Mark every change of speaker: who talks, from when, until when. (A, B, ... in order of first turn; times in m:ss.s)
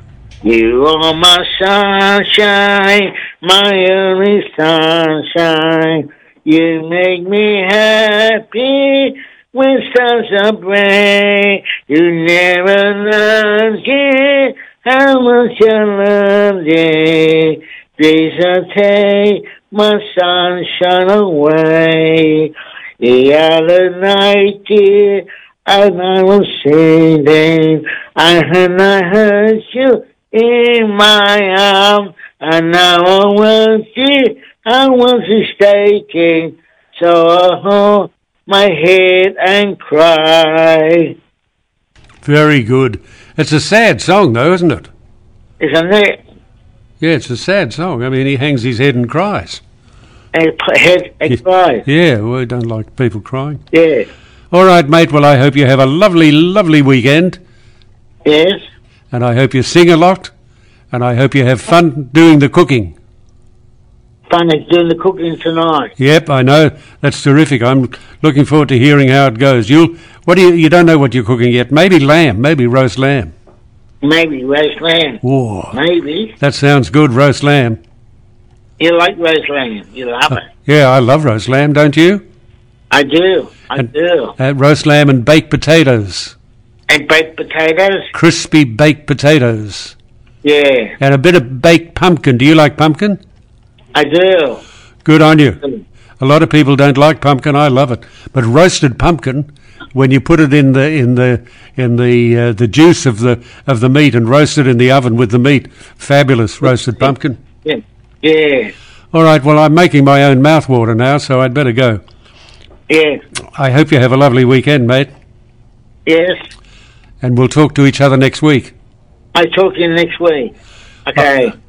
0:00.4-0:41.1 A
0:42.2-0:44.9 B
0:45.6-0:46.2 A
0:47.0-0:49.6 B
0:50.3-0:51.8 A
0:51.3-0:53.6 B
0:53.7-0:54.1 A
0:54.5-0:57.4 B
0:58.2-0:58.6 A
0:59.1-1:00.3 B
1:00.9-1:02.9 B
1:04.3-1:05.9 A
1:06.0-1:13.3 B
1:14.0-1:15.2 A
1:15.2-1:15.8 B
1:15.7-1:16.3 A
1:16.4-1:17.8 B
1:18.8-1:20.4 A
1:20.6-1:22.2 B
1:22.9-1:24.3 A
1:24.4-1:26.3 B
1:26.9-1:28.1 A
1:28.1-1:30.0 B
1:30.4-1:30.9 A
1:31.0-1:33.2 B
1:33.9-1:34.6 A
1:35.0-1:35.6 B
1:36.2-1:47.4 B
1:47.6-1:48.7 A
1:49.1-1:52.0 B
1:52.9-1:53.2 A
1:53.6-1:55.1 B
1:56.0-1:56.4 A
1:57.2-1:58.7 B
1:59.3-2:00.5 A
2:01.1-2:01.5 A